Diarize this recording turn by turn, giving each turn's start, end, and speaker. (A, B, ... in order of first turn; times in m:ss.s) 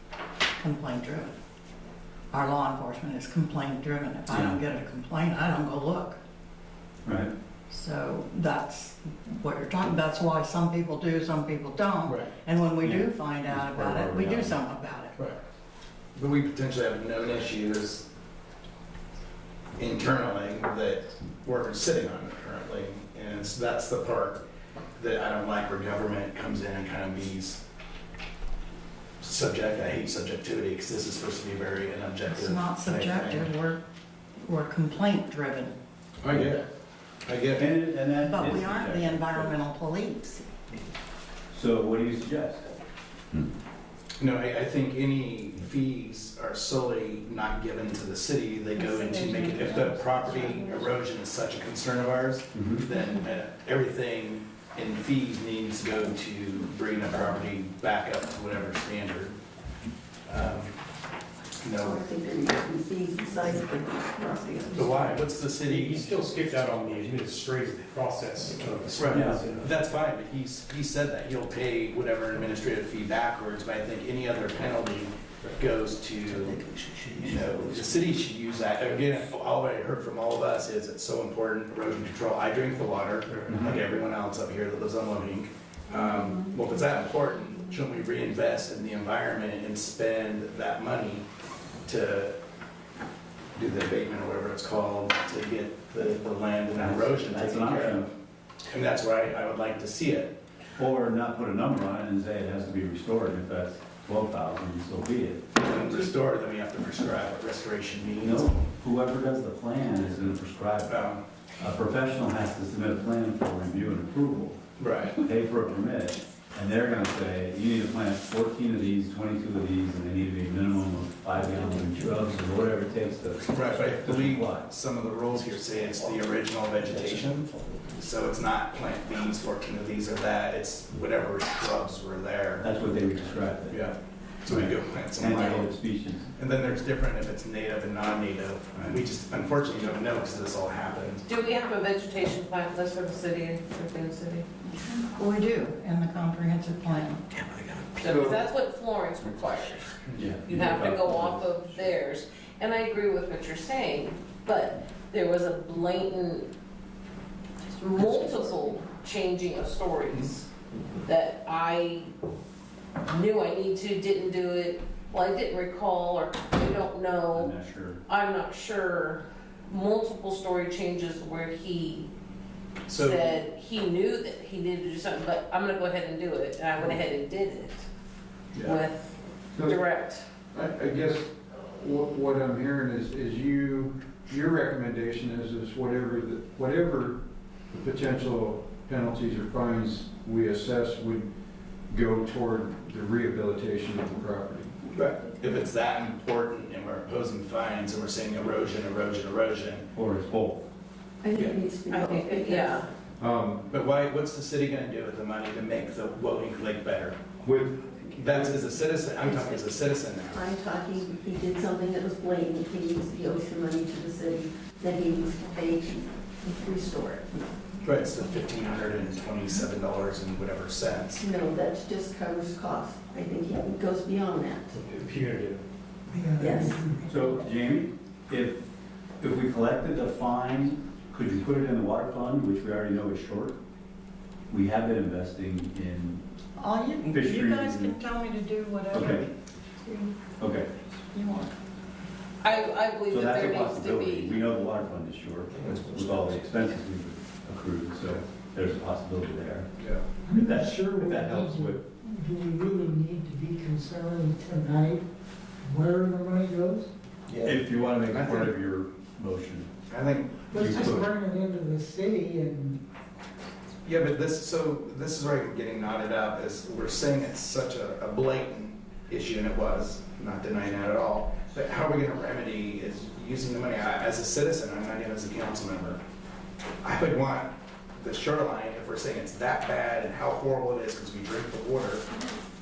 0:00.6-0:01.3 A
0:02.3-0:06.2 A
0:04.3-0:04.6 B
0:07.0-0:07.3 B
0:07.7-0:15.2 A
0:12.8-0:14.6 B
0:16.1-0:18.0 C
0:19.8-0:24.4 C
0:25.0-0:27.6 C
0:29.2-0:33.5 C
0:32.3-0:33.8 A
0:34.4-0:35.8 A
0:36.2-0:36.7 C
0:37.3-0:37.7 C
0:37.6-0:39.5 B
0:38.2-0:40.5 A
0:41.5-0:42.7 B
0:44.2-0:59.4 C
0:48.8-0:50.8 A
0:52.6-0:52.8 B
1:00.3-1:00.8 C
1:01.6-1:02.0 C
1:01.8-1:05.1 D
1:04.7-1:07.0 C
1:05.6-1:09.9 E
1:09.0-1:16.6 C
1:09.1-1:09.4 B
1:17.2-1:31.2 C
1:23.3-1:23.6 E
1:23.5-1:23.8 B
1:31.9-1:32.3 C
1:33.6-1:38.1 C
1:36.8-1:38.1 B
1:38.7-1:40.3 C
1:40.8-1:45.5 B
1:45.6-1:48.5 C
1:48.2-1:51.1 B
1:50.9-1:51.2 C
1:51.6-1:54.6 B
1:54.8-1:55.2 C
1:55.2-2:04.7 B
2:03.5-2:12.7 C
2:12.6-2:13.8 B
2:13.7-2:15.7 C
2:14.4-2:16.3 B
2:16.4-2:21.2 C
2:21.2-2:24.4 F
2:24.7-2:27.2 A
2:27.3-2:27.8 E
2:28.0-2:36.5 F
2:30.2-2:31.9 B
2:37.7-2:40.5 F
2:41.0-2:42.1 F
2:43.1-2:47.5 F
2:47.3-2:48.0 B
2:48.0-2:52.1 F
2:52.9-2:53.3 C
2:52.9-2:57.8 F
2:58.6-3:00.2 F
3:00.5-3:11.3 G
3:11.9-3:14.7 G
3:14.9-3:19.9 C
3:19.9-3:20.6 B
3:21.2-3:22.8 D
3:21.9-3:22.9 F
3:23.2-3:23.7 G
3:23.7-3:27.3 C
3:27.4-3:28.7 G
3:28.2-3:30.4 C
3:29.2-3:37.6 D
3:37.8-3:41.2 C
3:41.2-3:44.7 D
3:44.7-3:45.6 E
3:46.1-3:47.3 H
3:46.4-3:46.8 D
3:47.0-3:48.6 B
3:49.2-3:53.6 B
3:54.5-3:56.2 B
3:56.6-4:00.1 A
3:57.1-3:57.9 B
3:58.9-3:59.3 B
4:00.4-4:00.7 B
4:01.1-4:01.5 A
4:02.4-4:04.4 F
4:03.1-4:09.7 B
4:09.8-4:10.0 C
4:10.2-4:15.0 H
4:10.3-4:11.8 B
4:15.6-4:16.9 H
4:17.3-4:17.6 C
4:17.4-4:19.7 B
4:18.1-4:18.5 C
4:19.9-4:21.0 C
4:20.5-4:22.8 H
4:20.6-4:21.1 B
4:23.8-4:36.0 C
4:36.8-4:42.1 C